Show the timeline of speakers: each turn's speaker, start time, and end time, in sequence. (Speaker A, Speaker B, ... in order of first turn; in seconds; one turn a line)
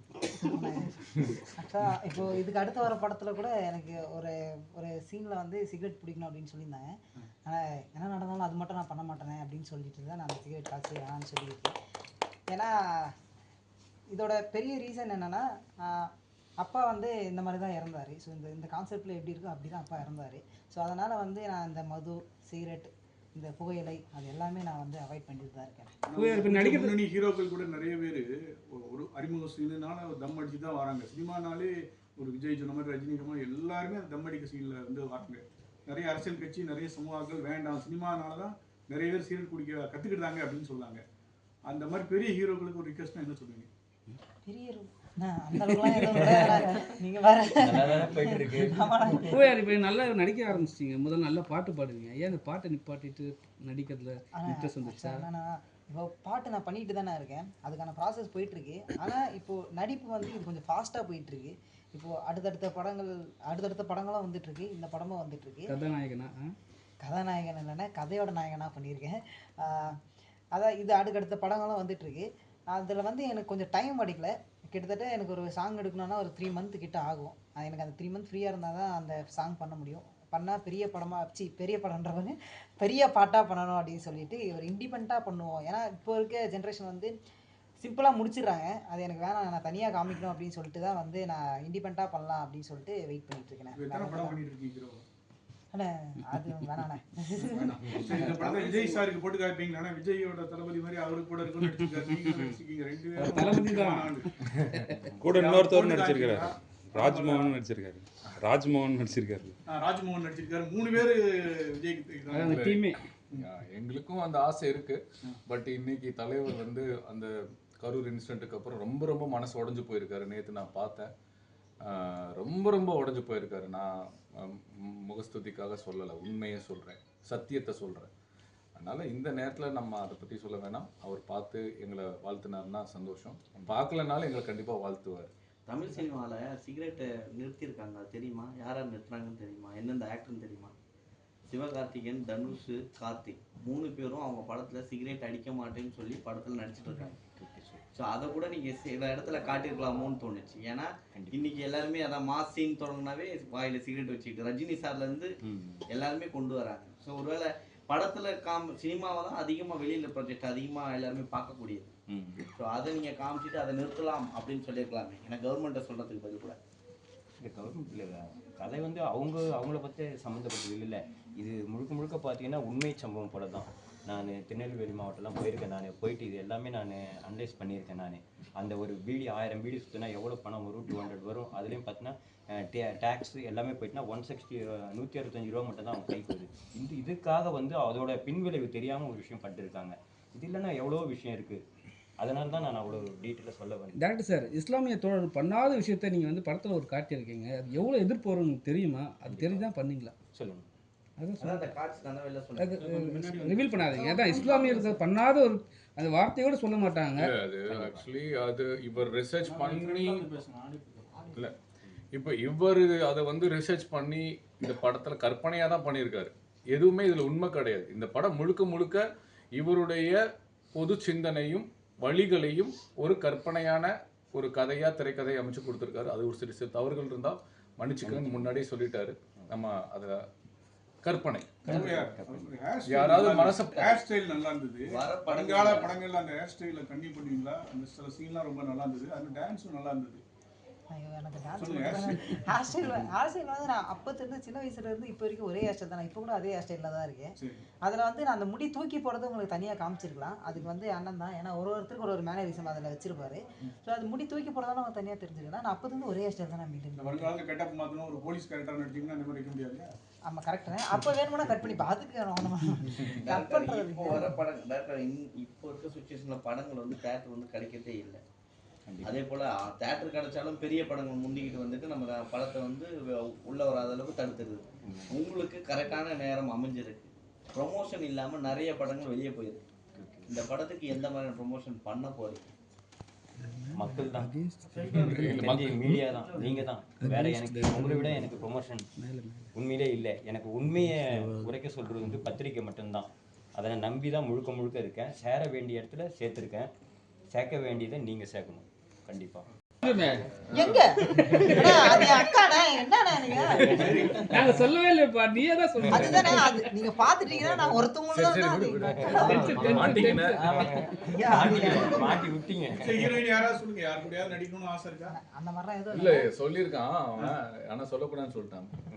Speaker A: 0.5-6.9
Speaker A: 7.4-11.7
Speaker A: 12.5-13.1
Speaker A: 14.1-26.0
Speaker B: 26.0-41.0
Speaker C: 26.1-27.0
Speaker B: 41.6-43.7
Speaker A: 44.5-49.4
Speaker C: 45.9-46.4
Speaker D: 46.1-46.6
Speaker D: 47.6-49.4
Speaker C: 49.3-55.3
Speaker A: 54.4-65.8
Speaker C: 65.7-66.4
Speaker A: 67.0-69.9
Speaker A: 70.5-87.1
Speaker A: 87.8-94.4
Speaker B: 93.7-95.0
Speaker A: 95.7-98.1
Speaker B: 97.4-104.3
Speaker E: 98.4-99.0
Speaker C: 101.6-102.5
Speaker C: 103.2-105.2
Speaker F: 105.2-109.6
Speaker B: 105.2-107.7
Speaker B: 109.7-112.7
Speaker C: 112.3-113.0
Speaker G: 112.5-117.3
Speaker G: 117.8-121.1
Speaker G: 121.8-128.1
Speaker G: 128.8-135.3
Speaker E: 135.7-140.7
Speaker E: 141.5-147.1
Speaker D: 146.9-147.8
Speaker E: 147.9-155.3
Speaker D: 151.1-151.4
Speaker D: 155.4-155.8
Speaker E: 155.9-161.9
Speaker D: 162.1-162.5
Speaker E: 162.6-166.6
Speaker D: 167.4-191.6
Speaker D: 192.2-194.0
Speaker C: 193.9-200.1
Speaker D: 199.3-199.7
Speaker D: 200.3-200.7
Speaker C: 201.2-201.7
Speaker E: 201.4-202.8
Speaker C: 202.6-207.3
Speaker B: 202.8-203.9
Speaker A: 203.9-205.0
Speaker G: 207.2-210.4
Speaker D: 207.7-208.1
Speaker B: 209.5-211.3
Speaker G: 212.1-219.0
Speaker G: 219.5-220.2
Speaker G: 220.7-230.1
Speaker D: 228.0-228.5
Speaker G: 231.0-231.9
Speaker D: 231.6-232.5
Speaker B: 231.7-240.2
Speaker G: 232.9-233.7
Speaker E: 233.7-234.0
Speaker E: 234.9-236.0
Speaker A: 240.9-247.3
Speaker B: 241.6-242.4
Speaker B: 247.4-247.6
Speaker A: 247.8-257.3
Speaker B: 256.9-259.9
Speaker A: 260.3-264.3
Speaker E: 263.1-268.2
Speaker D: 268.9-269.2
Speaker E: 269.0-279.6
Speaker D: 274.8-275.2
Speaker D: 279.9-280.4
Speaker E: 280.3-282.4
Speaker C: 283.4-285.4
Speaker D: 283.7-284.3
Speaker E: 284.7-285.4
Speaker D: 284.9-288.9
Speaker G: 285.1-285.9
Speaker C: 286.4-288.3
Speaker C: 289.0-289.5
Speaker D: 289.5-296.7
Speaker D: 297.3-299.4
Speaker C: 299.8-300.3
Speaker A: 300.4-304.2
Speaker G: 300.5-300.9
Speaker C: 301.1-302.3
Speaker B: 303.6-304.6
Speaker D: 303.6-304.1
Speaker C: 304.1-306.7
Speaker A: 305.9-310.1
Speaker D: 305.9-306.2
Speaker G: 308.1-310.7
Speaker D: 308.8-309.8
Speaker C: 309.1-310.6
Speaker D: 310.4-313.2
Speaker A: 310.7-312.2
Speaker B: 312.7-315.1
Speaker A: 315.1-316.3
Speaker G: 315.9-318.7